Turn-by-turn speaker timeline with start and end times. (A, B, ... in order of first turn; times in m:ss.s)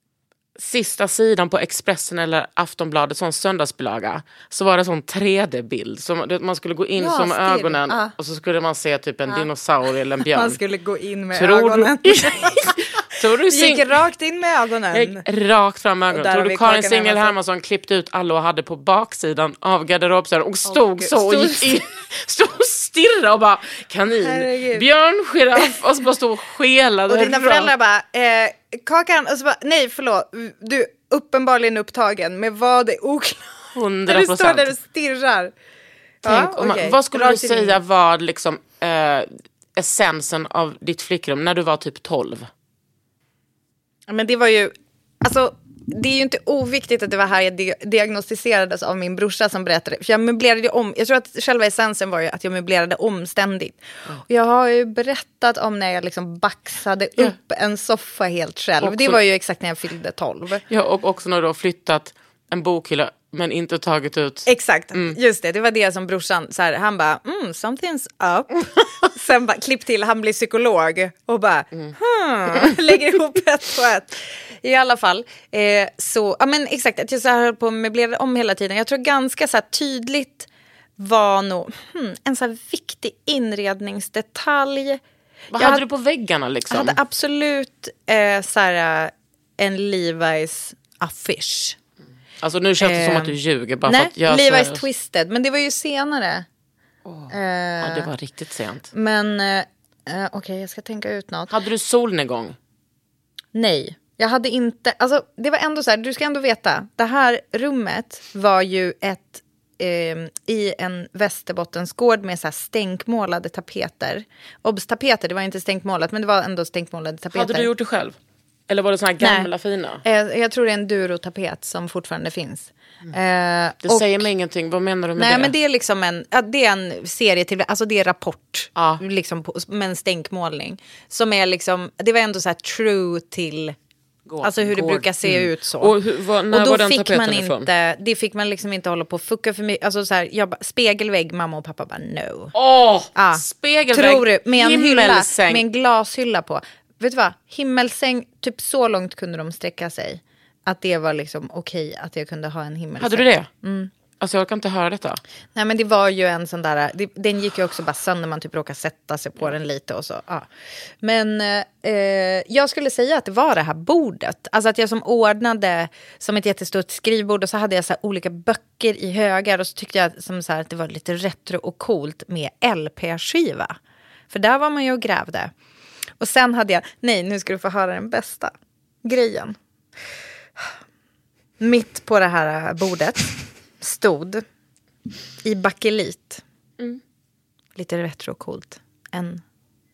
0:00.6-0:10.6 A
0:07.0-0:08.1 B
0:10.3-0:12.8 B
0:11.3-0:14.0 A
0:13.5-0:15.2 B
0:14.9-0:27.7 A
0:16.1-0:17.3 B
0:20.7-0:21.8 B
0:24.2-0:24.8 B
0:27.1-0:35.5 B
0:33.7-0:34.7 A
0:36.2-0:37.8 B
0:36.2-0:42.5 A
0:44.1-1:00.6 B
0:58.8-0:59.2 A
1:00.7-1:05.2 A
1:04.4-1:20.5 B
1:21.0-1:25.0 B
1:25.5-1:27.0 A
1:25.6-1:25.8 B
1:26.7-1:31.8 B
1:32.4-1:34.8 A
1:32.8-1:36.4 B
1:37.0-1:38.9 A
1:37.3-1:38.1 B
1:38.9-1:41.5 B
1:41.5-1:42.6 A
1:43.5-1:57.7 B
1:57.3-1:58.2 A
1:58.7-2:00.0 A
1:59.2-1:59.5 B
2:00.0-2:04.3 B
2:03.8-2:05.5 A
2:05.2-2:13.7 B
2:08.8-2:09.0 A
2:14.3-2:17.7 A
2:14.4-2:15.9 B
2:16.5-2:22.5 B
2:22.5-2:25.6 A
2:23.1-2:33.9 B
2:33.0-2:33.5 A
2:34.2-2:35.2 A
2:35.5-2:40.5 B
2:41.0-2:53.8 B
2:54.3-2:55.5 B
2:56.2-2:58.5 B
2:59.0-2:59.6 B
3:01.6-3:04.4 B
3:05.4-3:06.4 B
3:07.8-3:09.4 B